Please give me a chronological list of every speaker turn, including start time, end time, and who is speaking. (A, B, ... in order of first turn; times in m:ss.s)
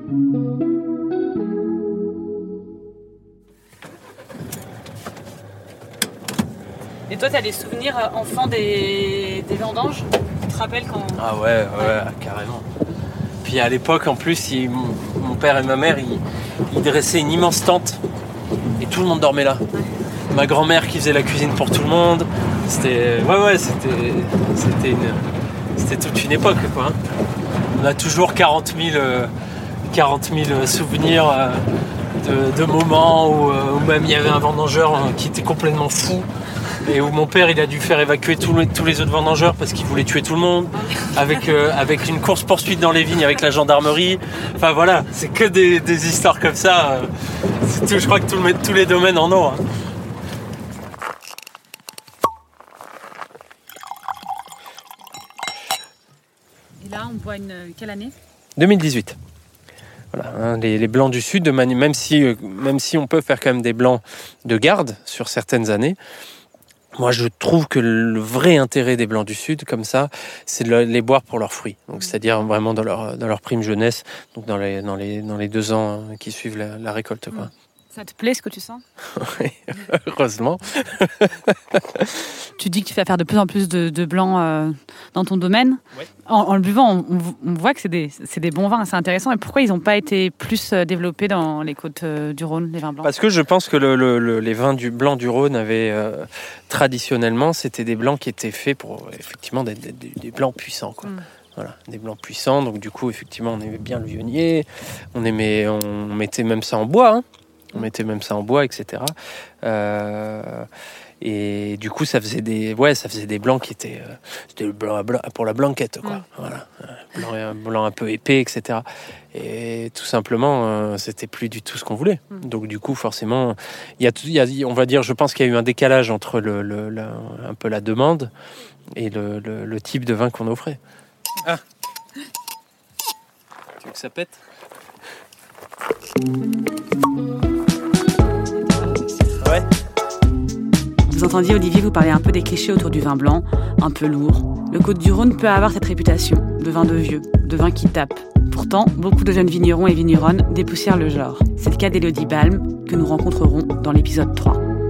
0:07.1-0:11.2 A
0:11.2-0:12.7 B
0:11.7-0:12.0 A
0:13.4-0:18.0 B
0:18.8-0:19.6 B
0:20.3-0:27.0 B
0:27.7-0:29.3 B
0:29.9-0:31.6 B
0:32.2-0:36.3 B
0:36.8-0:49.6 B
0:56.8-0:58.1 A
0:58.6-0:59.2 B
1:00.1-1:06.0 B
1:07.0-1:17.5 B
1:17.4-1:18.8 A
1:19.2-1:22.3 B
1:22.6-1:33.1 A
1:33.0-1:47.2 B
1:47.7-1:50.7 B
1:51.2-2:08.3 B
2:09.0-2:10.8 B
2:13.8-2:14.4 B
2:19.4-2:19.6 B
2:21.1-2:34.6 A